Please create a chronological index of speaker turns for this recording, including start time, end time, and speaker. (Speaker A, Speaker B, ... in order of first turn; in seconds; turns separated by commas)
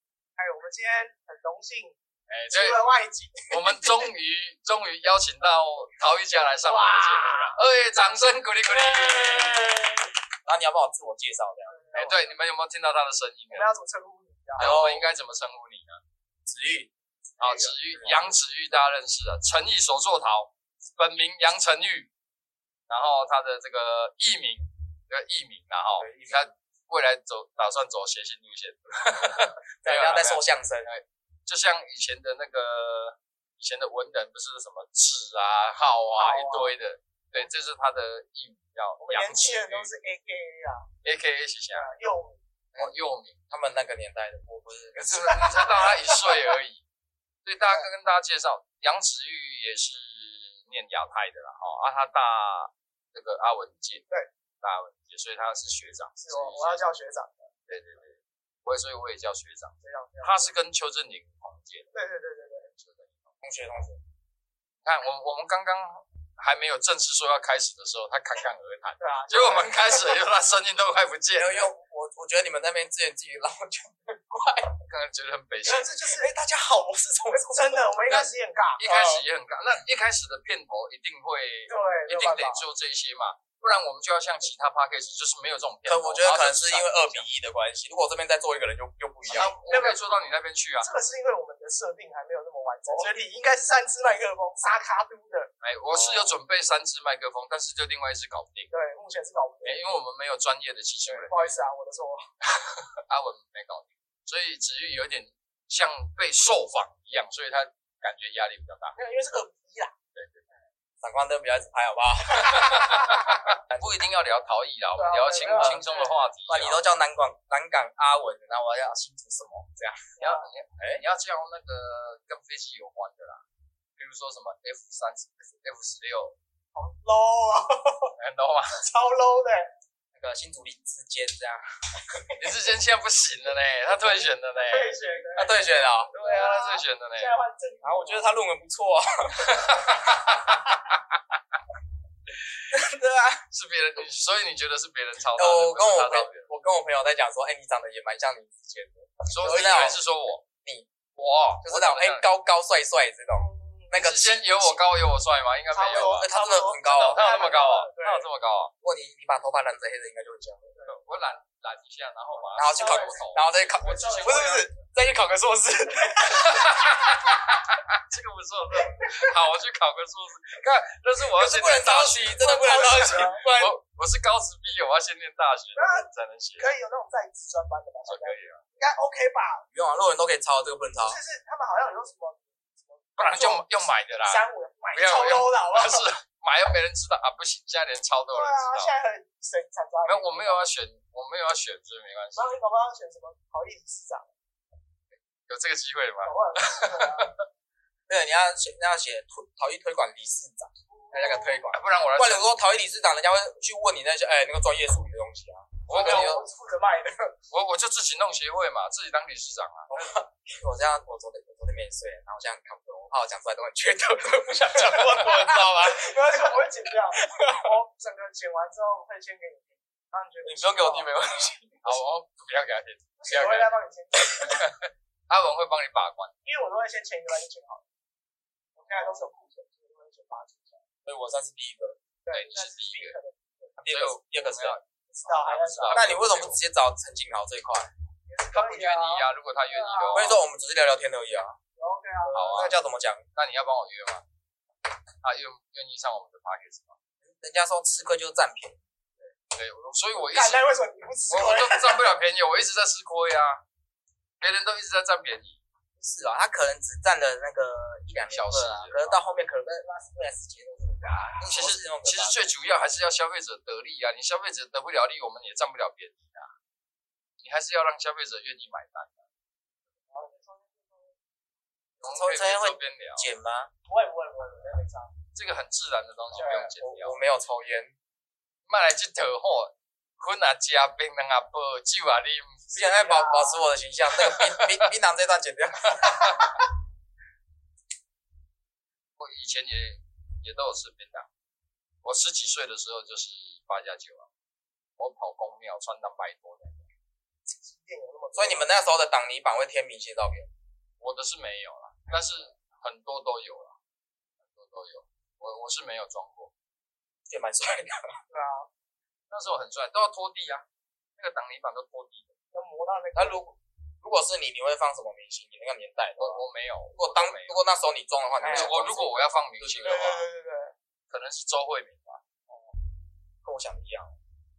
Speaker A: 0.4-2.0, Speaker B: 2.3-2.8, Speaker A: 2.5-3.9, Speaker B: 3.5-9.9, Speaker A: 6.6-10.0, Speaker C: 10.4-11.8, Speaker A: 11.7-12.3, Speaker B: 11.9-13.7, Speaker A: 13.5-14.8, Speaker C: 14.6-15.1, Speaker B: 14.6-16.0, Speaker C: 16.4-16.9, Speaker A: 17.4-17.8, Speaker B: 17.4-22.1, Speaker B: 22.9-39.9, Speaker C: 26.0-26.5, Speaker C: 29.8-30.9, Speaker A: 36.1-36.7, Speaker A: 39.0-40.9, Speaker B: 41.0-41.9, Speaker A: 41.7-42.4, Speaker B: 42.8-43.4, Speaker C: 43.5-45.3, Speaker B: 45.0-46.8, Speaker A: 45.1-46.4, Speaker B: 47.5-54.1, Speaker B: 54.6-56.8, Speaker A: 56.2-57.5, Speaker B: 57.7-61.9, Speaker A: 59.8-60.5, Speaker A: 61.9-62.7, Speaker B: 62.8-63.3, Speaker C: 63.4-64.0, Speaker B: 64.8-71.7, Speaker A: 69.0-70.1, Speaker C: 71.4-74.8, Speaker B: 74.9-75.9, Speaker A: 75.7-76.3, Speaker C: 76.1-78.0, Speaker A: 77.3-79.2, Speaker B: 78.1-87.3, Speaker A: 81.7-82.6, Speaker C: 85.8-89.5, Speaker B: 89.3-90.9, Speaker A: 89.7-90.0, Speaker A: 90.8-96.3, Speaker B: 95.6-98.7, Speaker A: 98.7-99.8, Speaker B: 99.6-101.6, Speaker A: 101.0-102.2, Speaker B: 102.5-109.0, Speaker A: 109.0-109.9, Speaker B: 110.2-110.4, Speaker C: 111.0-114.0, Speaker B: 112.4-116.8, Speaker A: 112.5-113.1, Speaker A: 115.0-116.2, Speaker C: 115.5-115.9, Speaker C: 116.5-120.1, Speaker A: 120.2-120.5, Speaker B: 120.2-123.4, Speaker B: 124.0-126.3, Speaker A: 126.8-128.1, Speaker B: 128.2-128.8, Speaker A: 128.8-129.7, Speaker C: 130.2-132.3, Speaker B: 132.3-135.0, Speaker A: 134.6-138.3, Speaker C: 135.4-136.1, Speaker B: 136.1-137.3, Speaker C: 137.8-140.2, Speaker B: 139.4-141.0, Speaker C: 142.7-143.4, Speaker B: 143.5-146.5, Speaker C: 145.3-150.0, Speaker B: 149.3-150.5, Speaker C: 150.6-150.9, Speaker B: 151.2-152.2, Speaker C: 151.6-154.8, Speaker A: 153.3-153.9, Speaker B: 153.9-156.3, Speaker A: 155.7-158.3, Speaker C: 155.9-157.3, Speaker B: 156.8-158.7, Speaker C: 158.8-160.7, Speaker B: 160.9-164.7, Speaker C: 162.6-166.7, Speaker A: 162.8-163.2, Speaker A: 163.8-164.8, Speaker B: 166.2-176.8, Speaker C: 171.4-173.8, Speaker A: 172.4-173.4, Speaker A: 175.8-179.7, Speaker B: 178.1-178.6, Speaker C: 179.7-181.2, Speaker A: 181.0-183.7, Speaker B: 183.2-188.9, Speaker A: 184.3-186.1, Speaker A: 188.3-190.7, Speaker B: 190.0-192.6, Speaker A: 192.3-194.3, Speaker B: 195.5-197.3, Speaker A: 196.2-197.3, Speaker C: 198.1-206.4, Speaker A: 200.9-201.6, Speaker B: 201.7-202.5, Speaker B: 205.9-206.4, Speaker A: 205.9-207.3, Speaker B: 207.5-209.9, Speaker C: 209.9-216.6, Speaker A: 214.7-221.4, Speaker C: 217.2-217.8, Speaker C: 220.4-221.8, Speaker B: 221.8-223.7, Speaker A: 223.2-224.7, Speaker B: 224.4-226.3, Speaker A: 226.4-227.8, Speaker A: 228.8-230.8, Speaker C: 231.0-232.0, Speaker A: 232.2-233.7, Speaker B: 232.3-233.2, Speaker C: 233.8-234.8, Speaker B: 233.9-236.6, Speaker A: 235.2-236.1, Speaker C: 235.9-237.9, Speaker A: 238.3-240.3, Speaker B: 238.5-240.4, Speaker C: 240.1-241.6, Speaker A: 241.8-242.7, Speaker C: 242.3-243.2, Speaker B: 242.3-242.7, Speaker B: 243.4-244.2, Speaker B: 245.2-247.0, Speaker C: 247.3-248.8, Speaker B: 249.5-250.7, Speaker A: 250.3-252.0, Speaker B: 251.3-253.6, Speaker B: 254.4-255.6, Speaker C: 256.0-262.4, Speaker B: 258.3-259.2, Speaker B: 261.4-266.5, Speaker B: 267.4-269.2, Speaker A: 270.1-271.1, Speaker B: 272.0-273.3, Speaker C: 272.0-273.7, Speaker A: 273.9-275.1, Speaker B: 275.4-277.2, Speaker A: 276.3-276.7, Speaker C: 276.4-277.9, Speaker B: 278.7-282.6, Speaker C: 282.7-286.4, Speaker A: 282.8-283.6, Speaker B: 284.2-284.9, Speaker B: 285.9-286.4, Speaker B: 289.2-291.3, Speaker B: 292.0-294.3, Speaker B: 295.0-296.9, Speaker A: 297.6-298.7, Speaker C: 298.3-300.5, Speaker B: 301.0-303.8, Speaker B: 304.5-306.5, Speaker C: 307.3-308.1, Speaker A: 308.3-308.7, Speaker B: 309.3-310.6, Speaker B: 311.2-312.3, Speaker A: 312.5-313.4, Speaker C: 313.1-316.4, Speaker B: 316.2-317.6, Speaker C: 316.9-319.1, Speaker A: 318.4-319.2, Speaker B: 318.5-320.3, Speaker C: 319.6-320.1, Speaker A: 319.8-320.7, Speaker B: 321.1-322.2, Speaker C: 323.4-324.1